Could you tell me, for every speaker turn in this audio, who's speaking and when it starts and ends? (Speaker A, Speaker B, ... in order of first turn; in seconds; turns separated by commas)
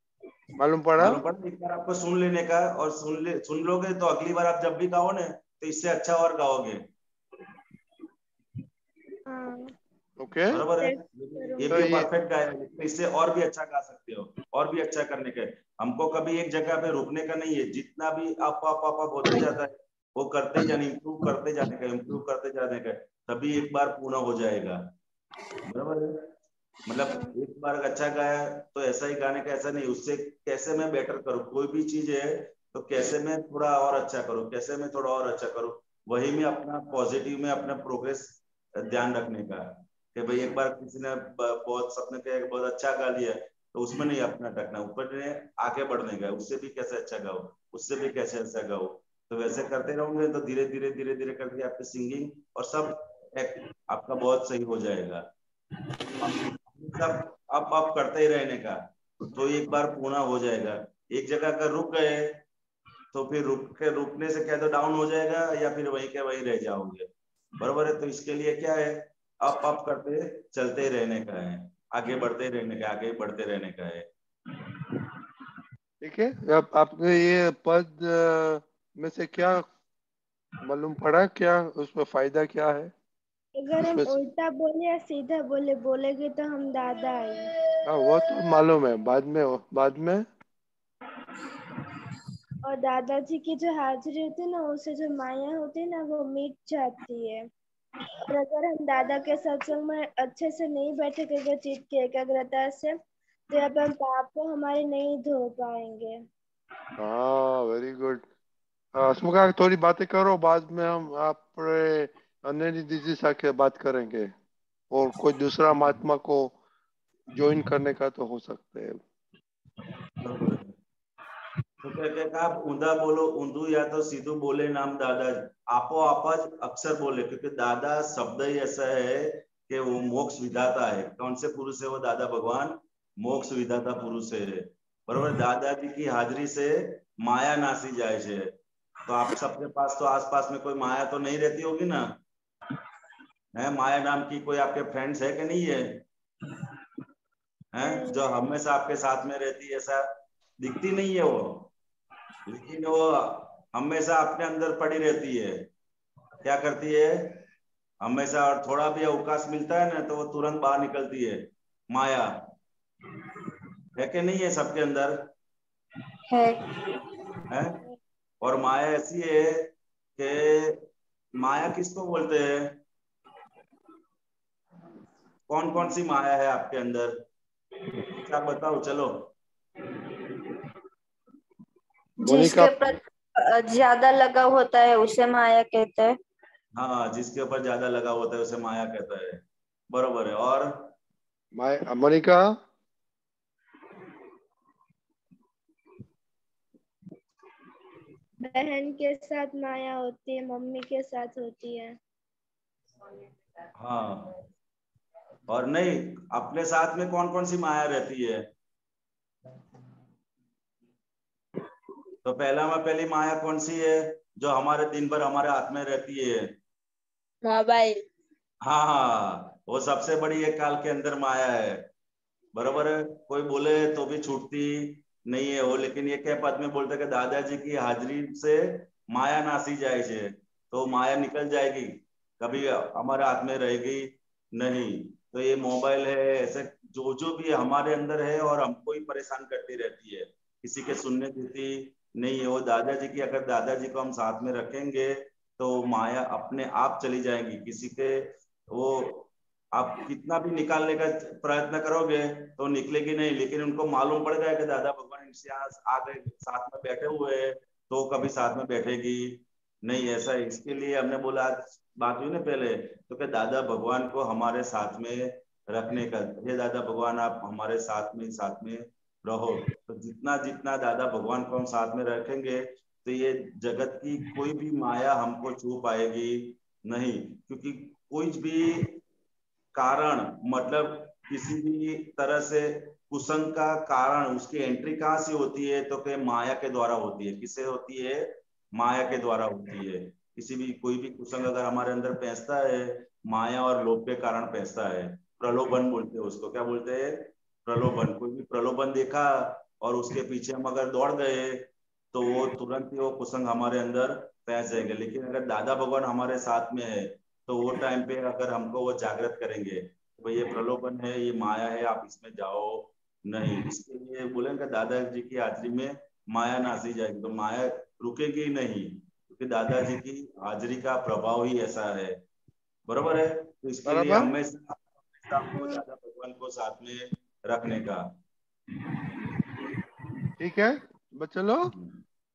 Speaker A: 0.6-1.2, Speaker B: 1.0-6.8, Speaker C: 9.2-9.7, Speaker A: 10.2-10.6, Speaker B: 10.5-24.8, Speaker C: 10.8-11.8, Speaker A: 11.7-12.1, Speaker B: 25.7-26.1, Speaker B: 26.9-55.2, Speaker C: 27.0-27.3, Speaker B: 56.2-58.8, Speaker B: 59.3-62.4, Speaker B: 63.1-74.1, Speaker A: 76.0-79.6, Speaker A: 80.7-82.9, Speaker C: 83.5-87.5, Speaker A: 83.8-84.1, Speaker A: 87.9-90.2, Speaker C: 92.6-97.4, Speaker C: 98.3-102.9, Speaker C: 103.5-106.1, Speaker A: 107.0-108.2, Speaker A: 109.0-114.3, Speaker A: 114.9-116.5, Speaker A: 117.3-119.0, Speaker B: 120.2-120.7, Speaker B: 121.8-138.5, Speaker B: 139.0-142.1, Speaker B: 143.5-146.0, Speaker B: 147.7-150.0, Speaker C: 147.8-148.3, Speaker B: 150.6-151.7, Speaker B: 152.5-155.7, Speaker B: 156.4-157.4, Speaker B: 158.0-162.3, Speaker B: 163.9-165.3, Speaker D: 166.3-167.0, Speaker B: 167.5-167.8, Speaker B: 168.4-170.8, Speaker B: 171.4-172.8, Speaker B: 175.5-177.1, Speaker B: 178.1-179.3, Speaker A: 182.2-182.7, Speaker D: 182.2-186.1, Speaker B: 186.8-190.9, Speaker A: 191.5-192.4, Speaker C: 198.4-201.9, Speaker B: 203.8-204.4, Speaker B: 205.5-208.5, Speaker B: 212.2-216.4, Speaker D: 217.4-218.0, Speaker B: 218.6-221.9, Speaker B: 222.5-248.2, Speaker B: 248.7-279.0, Speaker B: 279.7-322.2, Speaker B: 322.9-328.0, Speaker A: 323.9-324.3, Speaker C: 325.5-325.8, Speaker A: 330.4-331.7, Speaker B: 331.6-332.0